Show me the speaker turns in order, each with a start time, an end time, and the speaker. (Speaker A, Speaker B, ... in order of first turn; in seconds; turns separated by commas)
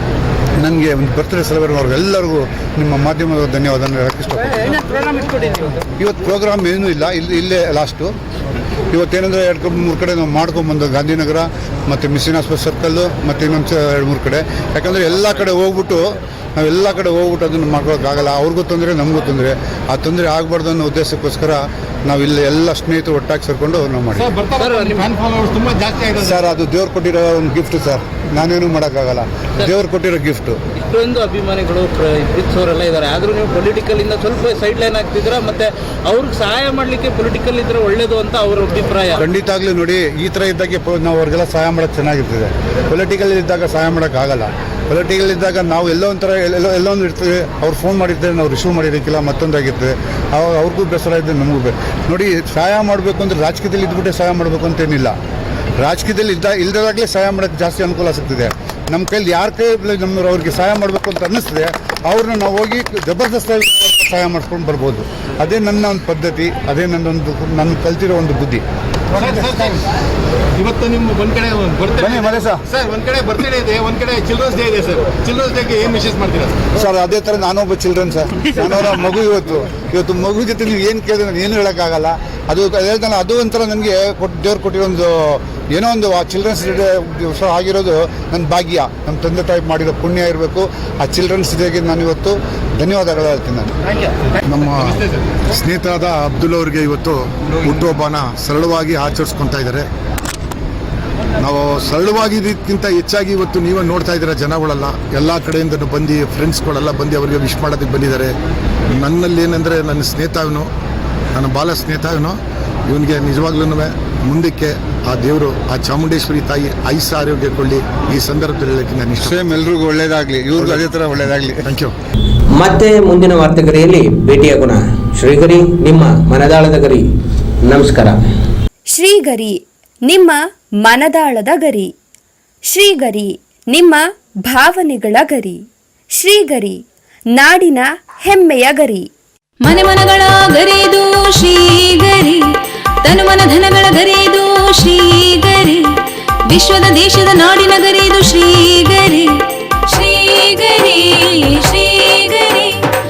Speaker A: 0.6-4.7, Speaker A: 6.0-8.1, Speaker A: 8.9-24.4, Speaker B: 24.2-26.3, Speaker A: 26.2-30.6, Speaker C: 30.9-39.1, Speaker A: 39.2-55.1, Speaker A: 55.8-68.6, Speaker B: 69.2-69.8, Speaker B: 70.6-76.6, Speaker A: 72.0-72.6, Speaker A: 76.7-93.7, Speaker D: 94.4-99.9, Speaker D: 101.4-108.3, Speaker D: 108.9-110.7, Speaker D: 111.3-119.5, Speaker A: 119.2-121.7, Speaker D: 121.7-121.9, Speaker E: 122.5-127.0, Speaker E: 127.7-128.2, Speaker F: 128.9-131.9, Speaker F: 132.7-135.6, Speaker F: 136.1-136.8, Speaker F: 137.3-139.1, Speaker G: 139.6-142.4, Speaker G: 143.0-145.8, Speaker G: 146.5-149.3, Speaker G: 149.9-152.8